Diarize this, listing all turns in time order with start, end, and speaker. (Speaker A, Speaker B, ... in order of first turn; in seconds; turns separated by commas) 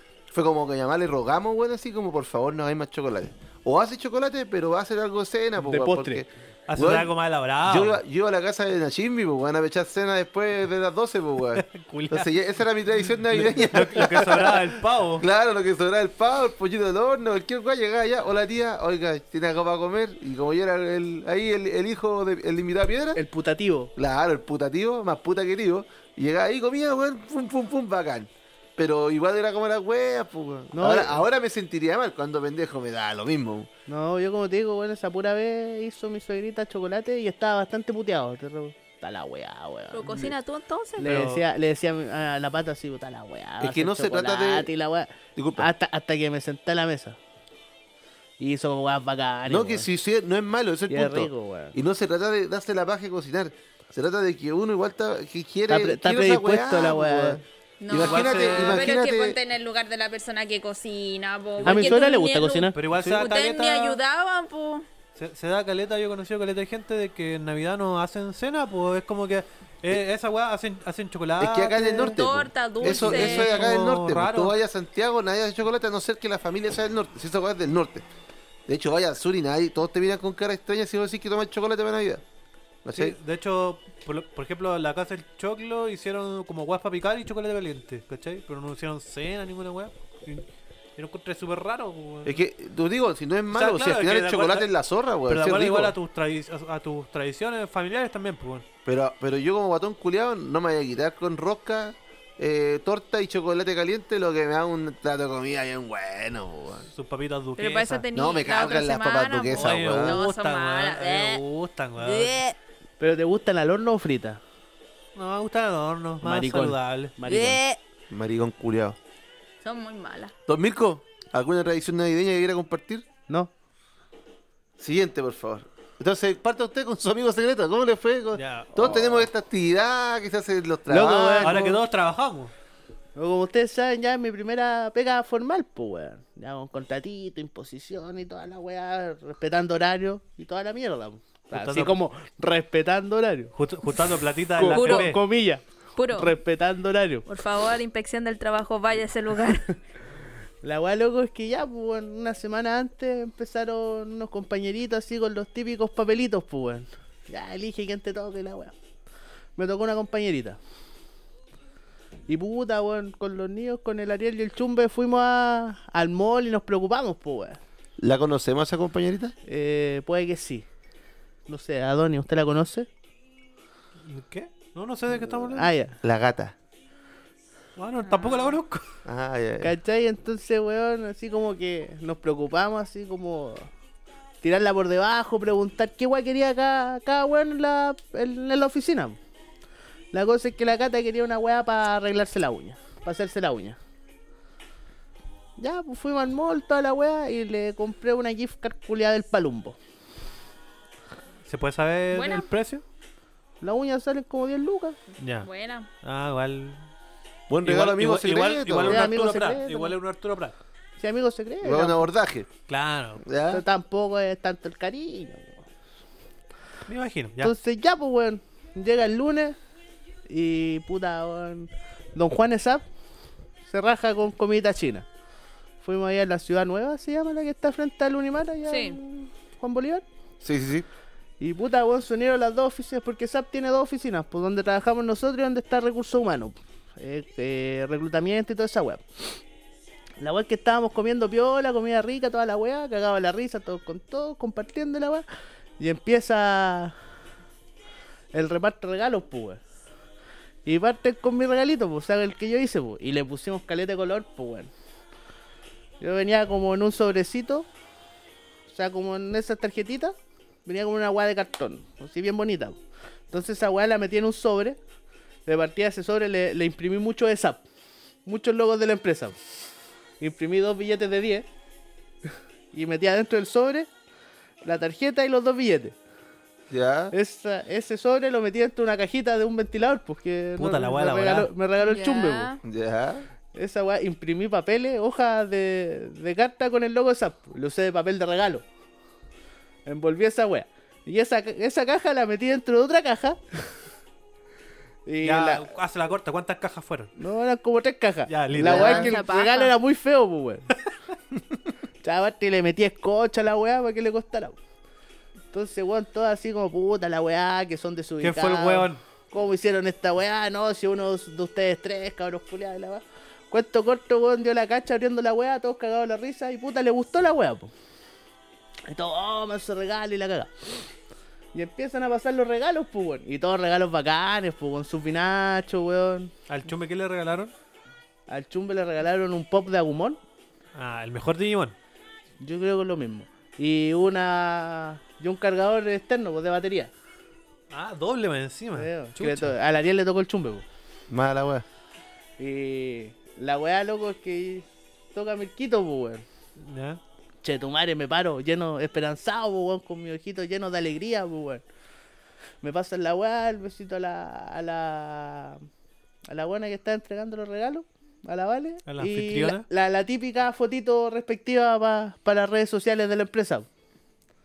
Speaker A: 0.3-7.1, Speaker B: 5.6-6.2, Speaker C: 6.7-8.0, Speaker A: 7.6-23.2, Speaker C: 11.6-12.3, Speaker C: 13.3-15.2, Speaker B: 23.1-23.9, Speaker A: 23.9-33.7, Speaker B: 30.7-31.2, Speaker B: 33.9-40.3, Speaker D: 39.9-41.1, Speaker B: 41.0-47.2, Speaker C: 41.0-41.4, Speaker A: 43.6-44.7, Speaker A: 45.4-45.7, Speaker B: 48.4-49.9, Speaker A: 49.5-59.4, Speaker B: 50.9-51.8, Speaker B: 55.7-57.4, Speaker D: 57.8-64.8, Speaker C: 57.9-58.9, Speaker C: 61.6-62.0, Speaker B: 61.6-62.8, Speaker C: 62.7-64.0, Speaker A: 63.0-63.2, Speaker C: 65.1-71.8, Speaker A: 71.4-78.0, Speaker B: 71.7-72.2, Speaker D: 71.9-73.7, Speaker C: 72.8-74.5, Speaker A: 78.7-82.2, Speaker A: 82.8-83.2, Speaker C: 82.9-90.5, Speaker C: 91.0-92.4, Speaker A: 92.2-96.0, Speaker C: 93.5-94.7, Speaker C: 95.3-98.7, Speaker A: 98.8-106.9, Speaker C: 106.9-108.0, Speaker D: 107.6-111.4, Speaker A: 108.1-110.2, Speaker C: 109.5-112.4, Speaker D: 112.0-112.6, Speaker B: 113.0-114.4, Speaker C: 115.2-117.2, Speaker B: 116.2-117.6, Speaker D: 117.2-117.8, Speaker A: 118.1-119.0, Speaker D: 119.6-120.3, Speaker A: 120.5-123.0, Speaker A: 124.8-131.6, Speaker C: 128.3-128.7, Speaker B: 128.8-129.0, Speaker B: 130.9-131.8, Speaker C: 131.4-132.5, Speaker B: 133.2-143.5, Speaker C: 141.5-142.0, Speaker C: 143.5-145.2, Speaker B: 144.6-147.2, Speaker D: 144.6-145.1, Speaker D: 145.9-146.3, Speaker D: 147.2-149.7, Speaker B: 150.6-158.7, Speaker B: 159.6-160.6, Speaker B: 162.3-167.6, Speaker A: 168.0-169.3, Speaker B: 169.4-170.7, Speaker B: 171.5-172.9, Speaker C: 174.0-175.7, Speaker B: 175.5-176.0, Speaker A: 176.0-176.5, Speaker C: 177.8-178.9, Speaker D: 178.1-178.6, Speaker A: 179.0-179.7, Speaker B: 179.6-183.7, Speaker B: 184.4-189.2, Speaker B: 190.1-193.8, Speaker B: 195.6-199.8, Speaker C: 201.4-202.8, Speaker D: 202.1-202.5, Speaker B: 203.6-205.0, Speaker C: 205.2-205.5, Speaker D: 205.4-205.9, Speaker C: 206.0-206.8, Speaker A: 207.5-209.1, Speaker C: 207.6-210.6, Speaker B: 208.8-209.9, Speaker B: 211.0-212.1, Speaker A: 211.6-212.5, Speaker C: 212.7-213.2, Speaker A: 213.2-213.6, Speaker B: 213.5-215.6, Speaker C: 216.9-217.5, Speaker B: 217.4-219.6, Speaker B: 220.3-222.8, Speaker B: 223.7-225.1, Speaker B: 225.8-230.0, Speaker D: 228.7-229.0, Speaker A: 230.4-230.9, Speaker B: 231.4-239.4, Speaker B: 240.2-245.2, Speaker B: 245.8-246.9, Speaker B: 248.3-249.6, Speaker B: 250.6-254.7, Speaker B: 256.0-257.7, Speaker B: 258.7-262.8, Speaker B: 263.3-264.8, Speaker B: 265.4-267.6, Speaker B: 268.2-269.5, Speaker B: 270.2-271.5, Speaker B: 272.7-273.9, Speaker B: 274.6-275.9, Speaker A: 276.7-277.1, Speaker B: 277.1-282.5, Speaker C: 280.6-281.5, Speaker D: 281.8-282.6, Speaker A: 282.6-283.3, Speaker B: 283.5-288.6, Speaker B: 289.9-293.8, Speaker B: 295.1-295.7, Speaker C: 295.2-297.1, Speaker B: 297.2-300.7, Speaker C: 298.3-299.0, Speaker A: 298.6-299.1, Speaker D: 298.6-299.7, Speaker B: 302.0-304.6, Speaker B: 305.5-317.7, Speaker C: 308.2-309.0, Speaker B: 318.9-320.5, Speaker B: 321.5-326.3, Speaker C: 326.5-327.5, Speaker B: 328.3-330.2, Speaker C: 330.7-331.8, Speaker B: 332.4-336.9, Speaker C: 337.7-339.5, Speaker B: 338.8-340.6, Speaker A: 341.1-341.6, Speaker B: 342.4-346.2, Speaker C: 346.6-347.0, Speaker B: 347.4-351.6, Speaker B: 352.6-355.6, Speaker B: 356.3-363.7, Speaker C: 358.9-359.6